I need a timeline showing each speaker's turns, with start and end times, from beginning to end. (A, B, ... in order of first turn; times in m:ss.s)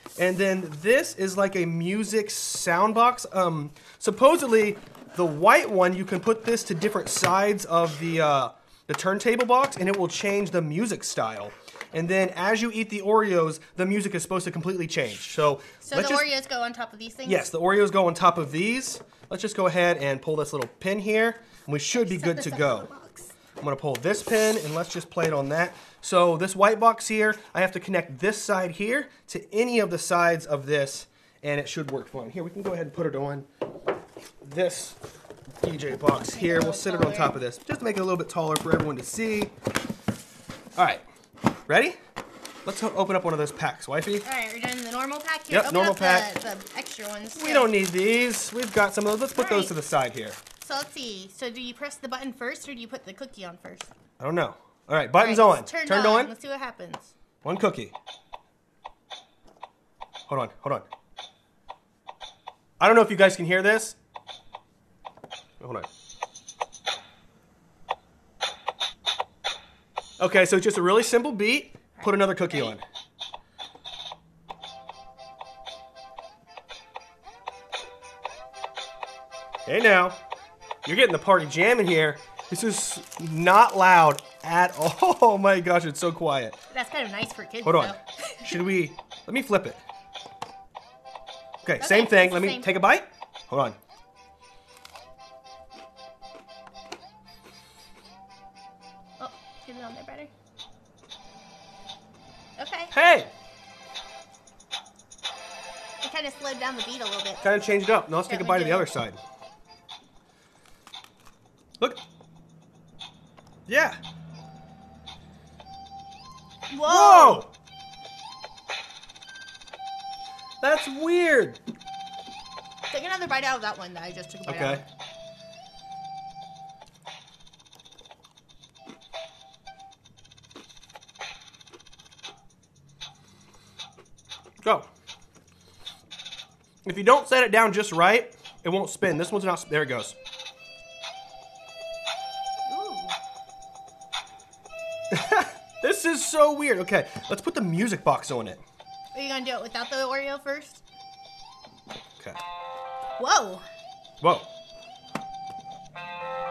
0:00.2-0:16.3 A
0:15.8-0:17.5 B
0:17.2-0:22.9 A
0:22.0-0:23.3 B
0:23.6-0:33.5 A
0:34.4-0:35.0 A
0:35.6-0:39.5 A
0:36.3-0:37.4 B
0:40.8-0:41.0 A
0:41.7-0:42.0 A
0:42.6-0:44.3 A
0:44.2-0:47.7 B
0:45.5-0:46.3 A
0:47.3-0:50.4 A
0:49.3-0:49.8 B
0:50.6-0:53.9 B
0:54.2-0:56.3 A
0:55.2-0:57.1 B
0:57.4-0:57.9 A
1:00.3-1:00.8 A
1:02.8-1:04.0 A
1:05.6-1:05.9 A
1:10.2-1:12.8 A
1:12.0-1:12.8 B
1:19.6-1:20.2 A
1:20.8-1:26.6 A
1:26.7-1:28.6 B
1:27.6-1:29.8 A
1:31.6-1:33.8 A
1:31.8-1:32.8 B
1:39.2-1:40.3 B
1:42.6-1:42.9 B
1:42.9-1:43.3 A
1:46.0-1:47.5 B
1:47.4-1:49.2 A
1:48.3-1:48.9 B
1:53.7-1:54.0 A
1:56.7-1:57.4 B
1:56.8-1:57.5 A
2:00.6-2:01.6 A
2:02.9-2:04.8 B
2:04.4-2:04.8 A
2:14.6-2:14.9 A
2:16.8-2:20.1 A
2:22.7-2:23.1 B
2:25.1-2:28.6 A
2:29.1-2:30.8 B
2:33.2-2:33.6 B
2:34.2-2:34.5 A